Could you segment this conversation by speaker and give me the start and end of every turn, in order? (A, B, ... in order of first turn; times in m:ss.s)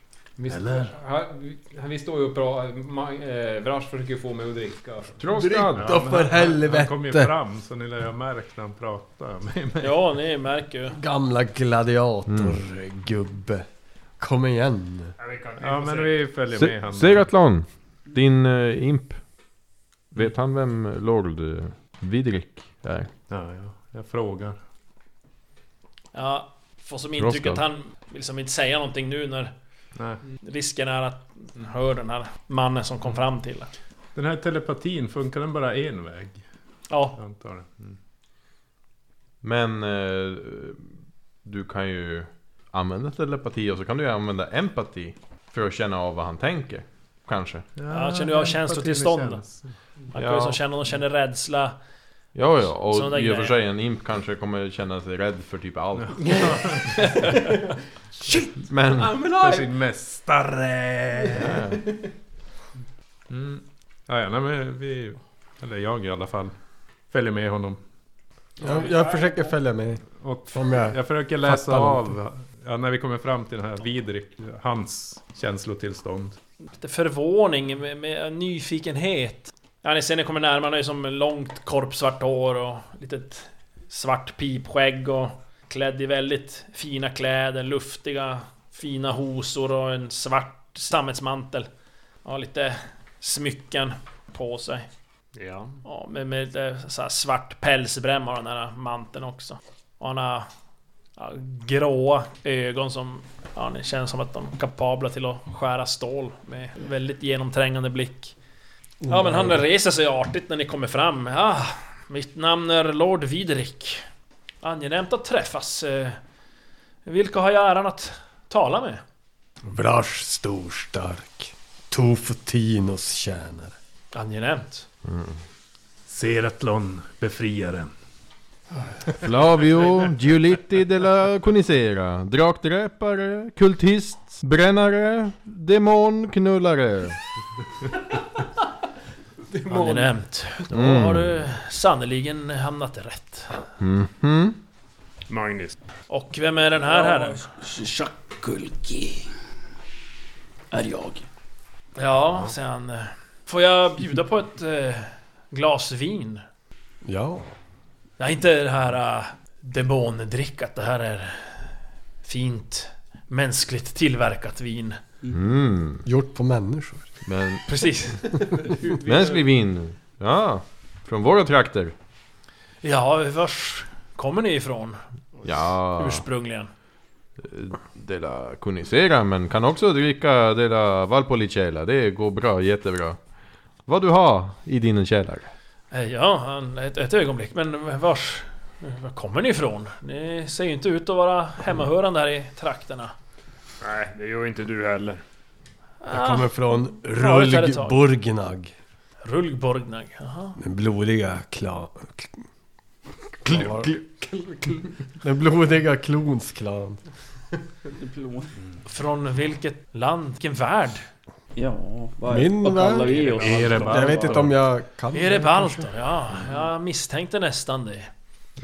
0:00.4-0:05.2 A
0:00.5-0:00.9 B
0:05.2-0:06.0 C
0:05.3-0:07.3 D
0:05.7-0:10.0 B
0:09.8-0:11.0 E
0:10.9-0:13.6 D
0:12.3-0:12.6 C
0:14.2-0:15.1 D
0:15.2-0:16.3 F
0:15.6-0:17.2 B
0:16.5-0:19.2 C
0:20.1-0:23.1 C
0:23.3-0:24.6 B
0:26.1-0:29.5 E
0:27.2-0:27.6 C
0:30.0-0:30.2 B
0:30.4-0:33.7 E
0:34.1-0:36.4 B
0:36.9-0:37.2 E
0:37.2-0:38.0 B
0:39.4-0:40.9 C
0:41.4-0:47.6 C
0:47.8-0:49.7 B
0:47.9-0:49.4 E
0:50.1-0:51.8 E
0:50.1-0:50.6 C
0:52.3-0:56.3 C
0:52.9-0:53.5 E
0:56.0-0:56.9 B
0:58.6-0:59.1 C
0:59.2-0:59.6 G
0:59.2-1:01.6 B
1:01.4-1:01.8 C
1:03.3-1:06.5 B
1:07.1-1:07.8 B
1:08.6-1:12.2 D
1:08.6-1:09.5 G
1:10.2-1:16.4 B
1:16.8-1:31.7 E
1:32.2-1:34.9 E
1:35.3-1:35.8 F
1:35.8-1:40.5 E
1:41.2-1:48.3 E
1:49.0-1:49.6 D
1:49.1-1:54.0 E
1:54.6-1:56.2 E
1:57.0-1:59.0 E
1:59.6-2:03.7 D
2:04.1-2:04.8 E
2:05.0-2:05.4 C
2:06.1-2:07.9 B
2:09.2-2:17.2 C
2:19.7-2:23.6 E
2:20.7-2:21.4 C
2:23.8-2:24.6 C
2:25.3-2:25.8 F
2:26.1-2:27.5 E
2:26.8-2:29.3 G
2:30.7-2:31.3 G
2:32.0-2:36.4 E
2:37.0-2:37.5 D
2:38.2-2:41.7 E
2:42.2-2:45.0 E
2:45.3-2:46.0 C
2:46.0-2:47.1 D
2:47.2-2:47.6 C
2:47.7-2:48.7 E
2:49.0-2:51.9 C
2:52.8-2:55.0 E
2:55.4-2:56.2 C
2:55.9-2:56.7 E
2:57.4-3:03.2 C
3:03.9-3:05.5 C
3:05.9-3:13.1 E
3:13.8-3:15.2 F
3:16.0-3:18.0 E
3:16.1-3:18.7 D
3:19.2-3:20.6 E
3:20.6-3:22.4 D
3:23.4-3:27.0 D
3:28.0-3:28.5 G
3:28.8-3:31.0 E
3:31.6-3:34.5 G
3:32.2-3:35.9 D
3:33.4-3:34.5 B
3:35.1-3:38.1 E